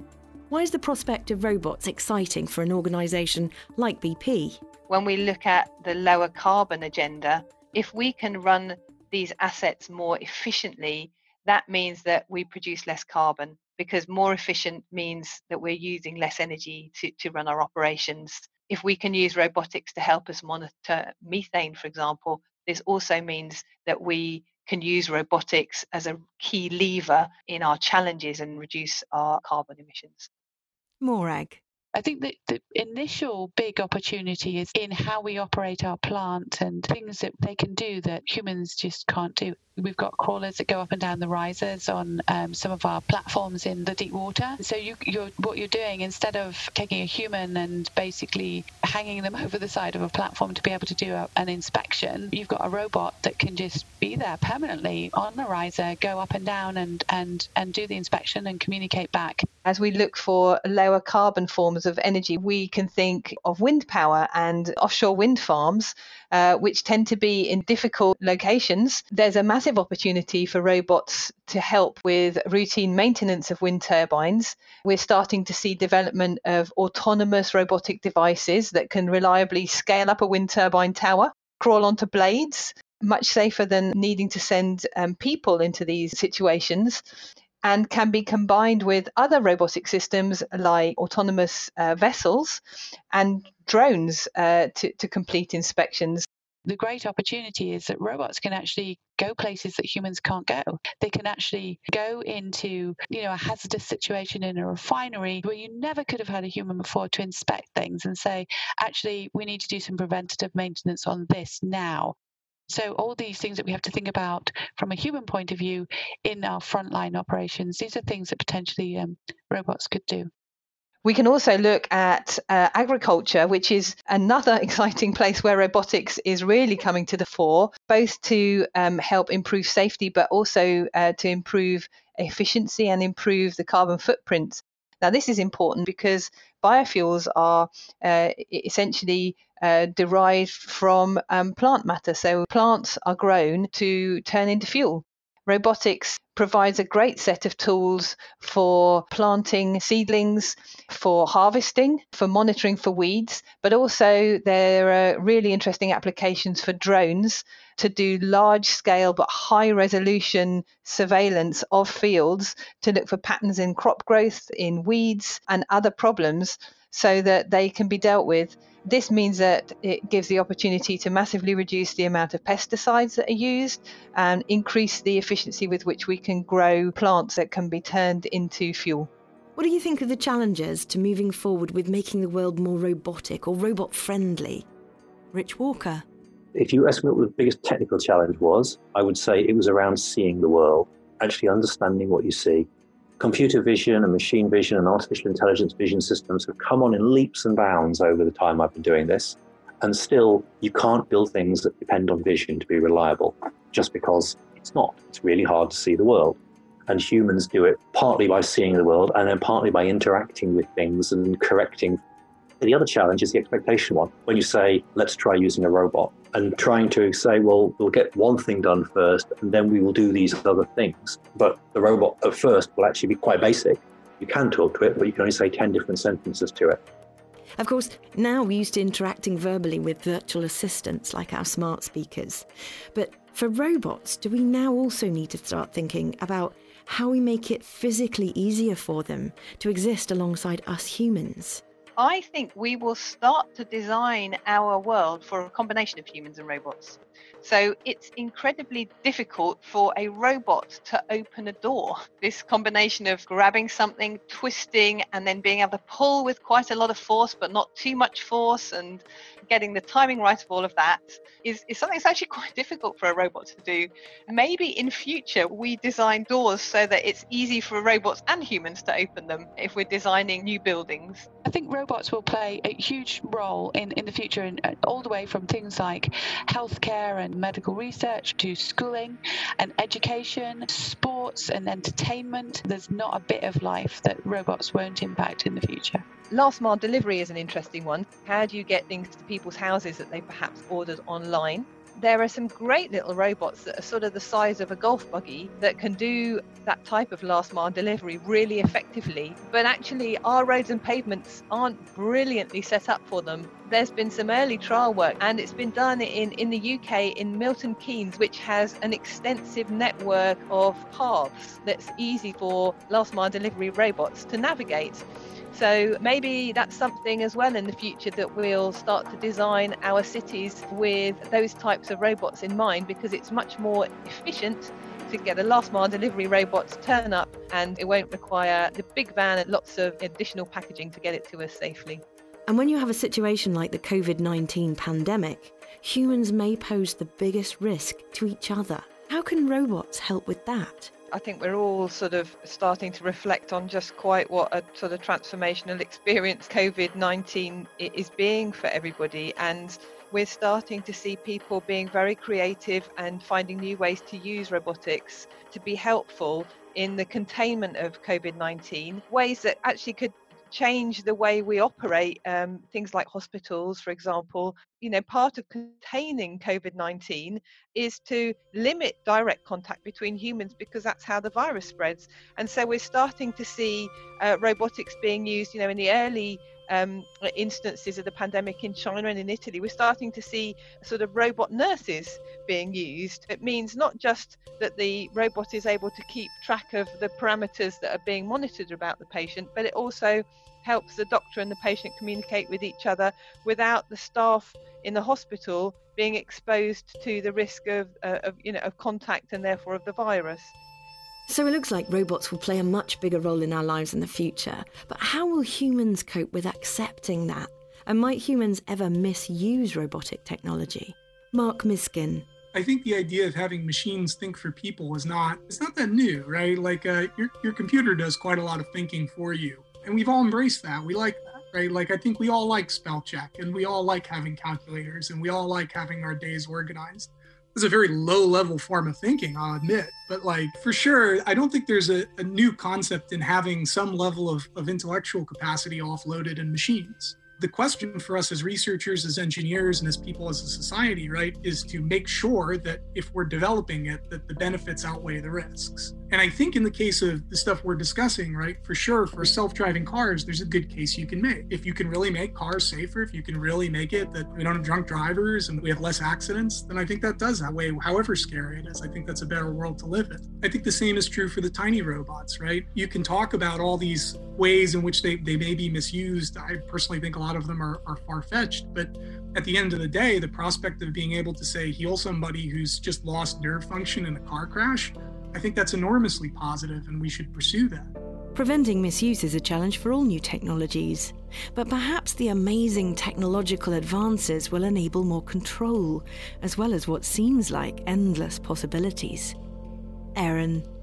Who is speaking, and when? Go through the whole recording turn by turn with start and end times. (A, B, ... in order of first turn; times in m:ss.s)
0:00.5-0:04.6 A
0:04.9-0:30.3 B
0:31.0-0:31.6 A
0:31.9-0:59.5 C
0:59.6-1:27.0 B
1:27.6-1:32.6 B
1:33.1-1:36.3 B
1:36.7-1:52.2 C
1:52.7-2:00.3 C
2:01.0-2:59.1 B
2:59.6-3:04.7 A
3:05.3-3:06.0 A
3:06.6-3:12.7 D
3:13.2-3:26.4 D
3:26.9-3:32.0 D
3:32.6-3:46.8 D
3:47.6-4:01.6 A
4:02.0-4:31.3 B
4:31.4-4:46.0 C
4:46.3-5:32.0 B
5:32.5-5:40.9 A
5:41.1-6:40.5 B
6:41.3-6:52.3 A
6:52.5-7:57.9 E
7:58.4-8:09.4 A
8:10.2-8:10.7 A